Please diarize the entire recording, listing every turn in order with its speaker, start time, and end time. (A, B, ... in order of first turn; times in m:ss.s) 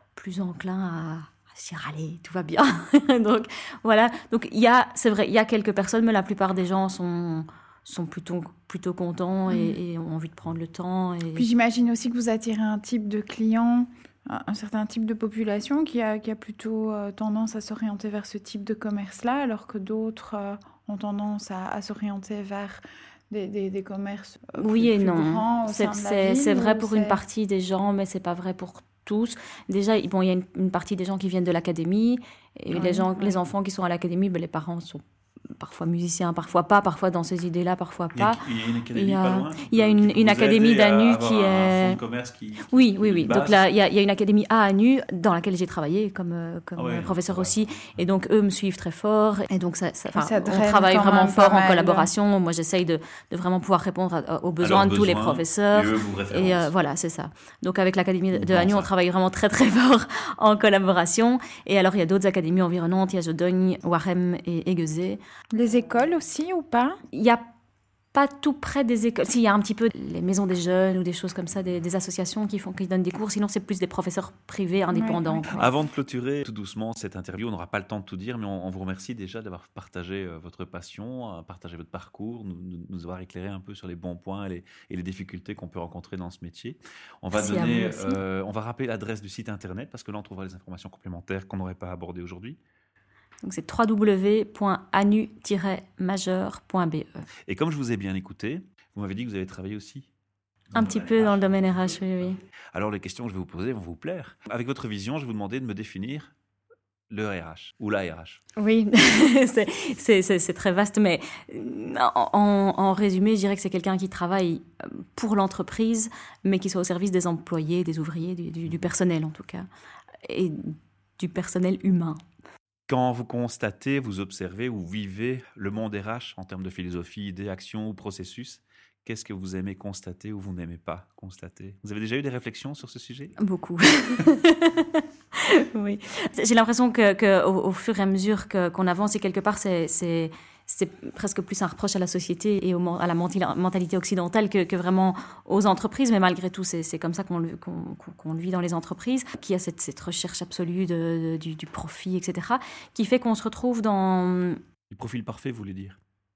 0:00.2-0:11.5 A
0:09.5-0:09.8 B
0:11.4-0:27.2 B
0:24.6-0:35.0 A
0:32.7-0:33.4 B
0:35.6-0:38.4 A
0:38.1-0:43.6 C
0:38.9-0:42.0 A
0:42.7-1:05.2 A
0:46.8-0:48.0 C
0:50.2-0:52.1 B
0:54.6-0:56.7 C
0:58.3-0:58.9 C
1:05.5-1:07.0 B
1:07.1-1:07.4 A
1:08.1-1:15.6 A
1:14.9-1:15.7 B
1:15.5-1:32.6 C
1:27.3-1:28.2 A
1:33.4-1:37.3 A
1:37.5-1:40.1 C
1:40.7-1:46.3 C
1:40.7-1:42.4 A
1:47.1-1:48.4 C
1:48.6-1:59.7 A
2:00.2-2:02.2 A
2:02.9-2:13.4 C
2:13.4-2:34.6 A
2:34.9-2:36.0 C